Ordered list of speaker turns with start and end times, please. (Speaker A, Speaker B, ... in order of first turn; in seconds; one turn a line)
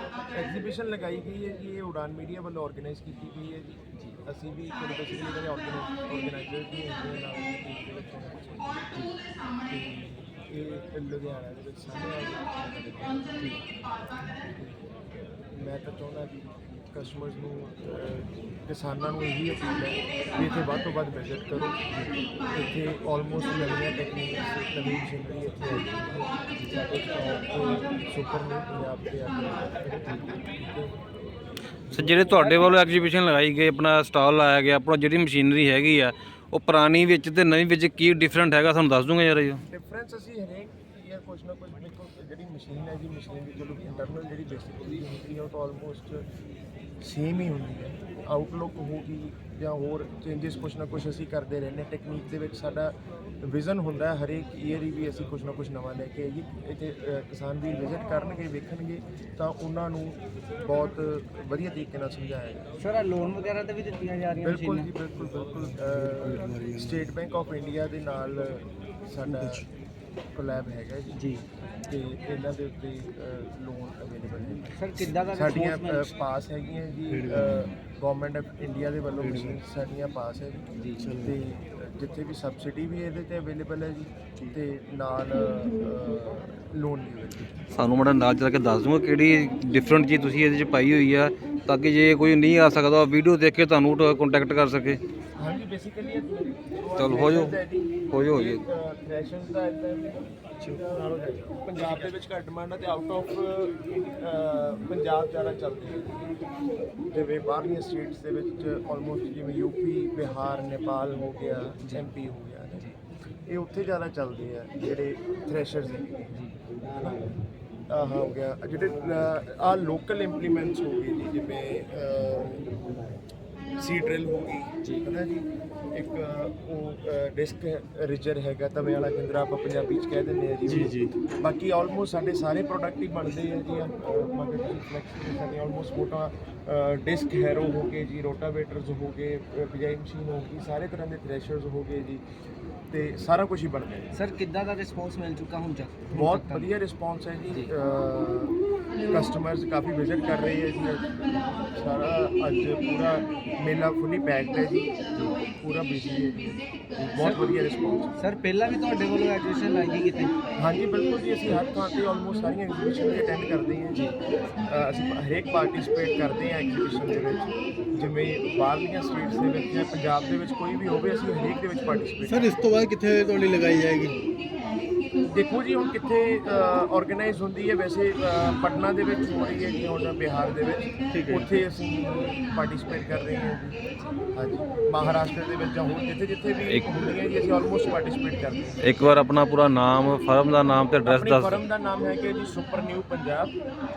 Speaker A: 0.3-8.8
Speaker A: 9.7-13.2
Speaker A: 14.5-21.8
Speaker A: 22.5-31.1
Speaker B: 31.9-32.7
Speaker C: 31.9-39.6
Speaker A: 39.6-46.2
Speaker A: 47.0-62.7
Speaker B: 62.8-64.9
Speaker A: 64.4-69.7
Speaker D: 65.7-67.1
Speaker A: 70.3-71.2
Speaker B: 71.2-71.4
Speaker A: 71.9-80.7
Speaker B: 74.7-76.1
Speaker D: 77.1-77.7
Speaker D: 79.2-79.6
Speaker B: 80.8-81.0
Speaker D: 81.0-81.3
Speaker A: 81.2-87.6
Speaker C: 87.8-95.0
Speaker A: 95.3-100.3
Speaker C: 97.0-97.5
Speaker C: 98.1-98.6
Speaker B: 100.7-101.2
Speaker A: 100.9-106.3
Speaker A: 107.1-112.9
Speaker B: 111.8-112.1
Speaker A: 113.5-116.3
Speaker A: 116.9-117.3
Speaker A: 117.9-122.7
Speaker A: 123.8-142.2
Speaker D: 130.7-131.1
Speaker A: 142.9-144.1
Speaker B: 144.2-146.7
Speaker A: 146.1-151.1
Speaker A: 151.6-154.9
Speaker A: 155.6-158.1
Speaker B: 157.0-160.3
Speaker A: 160.6-164.0
Speaker A: 164.7-172.5
Speaker D: 172.2-174.2
Speaker A: 175.2-189.1
Speaker D: 181.1-181.5
Speaker C: 188.8-191.6
Speaker A: 191.0-193.5